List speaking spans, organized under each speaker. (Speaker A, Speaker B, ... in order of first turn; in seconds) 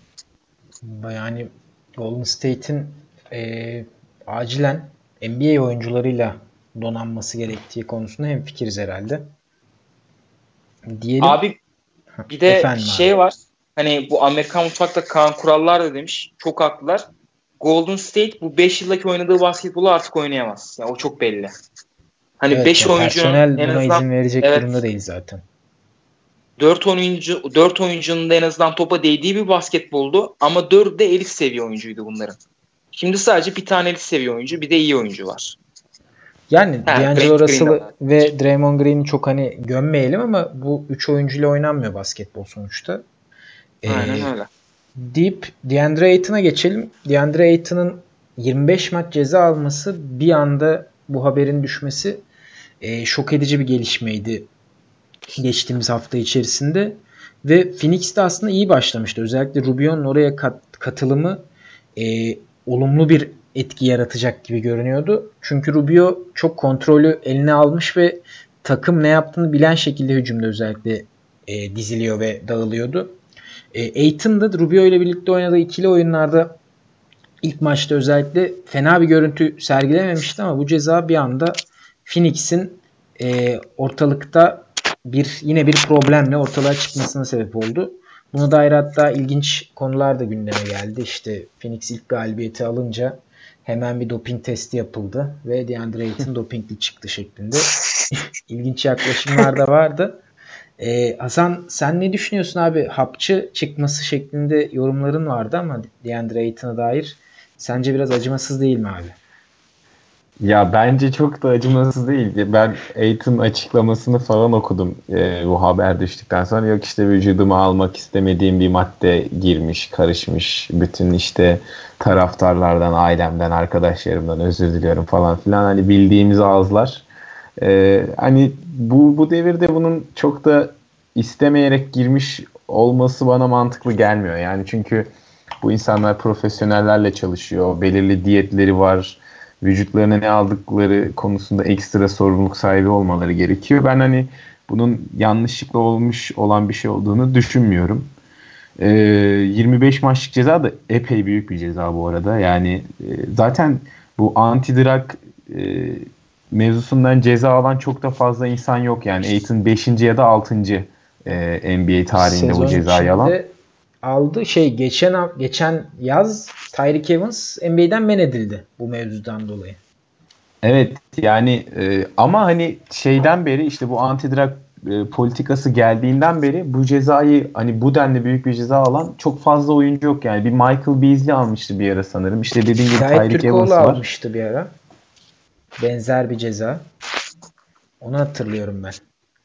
Speaker A: 0.8-9.3, 10.9-11.4, 12.2-13.2, 22.5-25.4, 36.5-43.0, 43.8-44.3, 45.0-52.2, 52.8-54.5, 55.4-73.2, 73.7-76.6, 77.4-97.7, 98.5-100.2, 100.8-109.2, 162.1-169.8, 182.9-184.7, 185.8-186.9, 188.0-189.0
Speaker B: 11.2-11.6, 12.3-17.0, 17.6-21.5, 22.4-24.8, 26.6-32.4, 32.9-35.6, 36.9-37.9, 43.9-44.5
Speaker C: 110.4-127.0, 127.6-135.1, 135.6-148.1, 148.8-163.3, 170.6-184.0